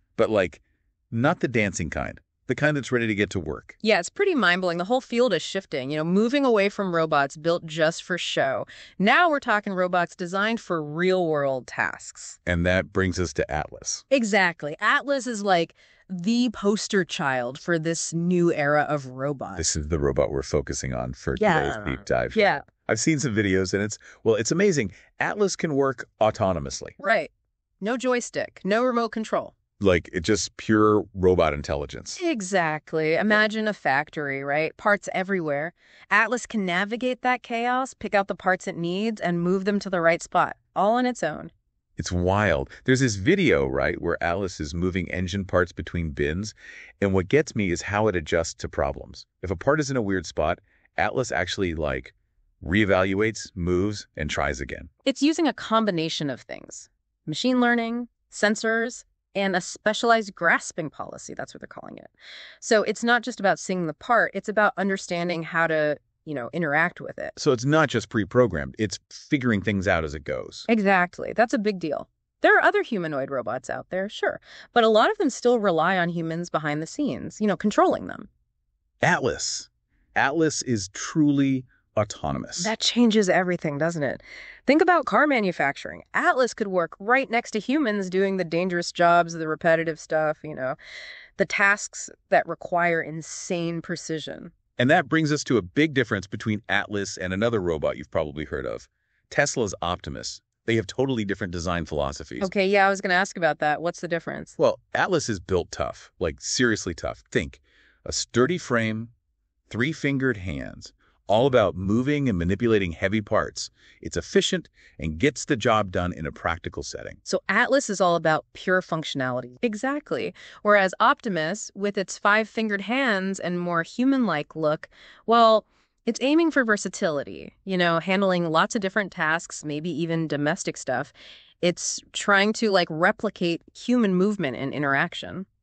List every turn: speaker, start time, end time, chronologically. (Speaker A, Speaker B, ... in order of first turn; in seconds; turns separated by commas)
Speaker A: 0.2-3.8, Speaker B: 3.8-12.4, Speaker A: 12.4-14.0, Speaker B: 14.1-19.6, Speaker A: 19.5-26.9, Speaker B: 21.4-22.6, Speaker B: 27.0-29.5, Speaker A: 29.8-32.2, Speaker B: 32.2-41.5, Speaker A: 42.0-54.9, Speaker B: 55.0-67.3, Speaker A: 67.3-70.7, Speaker B: 70.7-78.3, Speaker A: 79.0-82.7, Speaker B: 82.6-90.8, Speaker B: 91.4-94.5, Speaker A: 94.8-102.5, Speaker B: 102.4-104.5, Speaker A: 104.6-109.1, Speaker A: 109.7-117.2, Speaker B: 117.2-135.4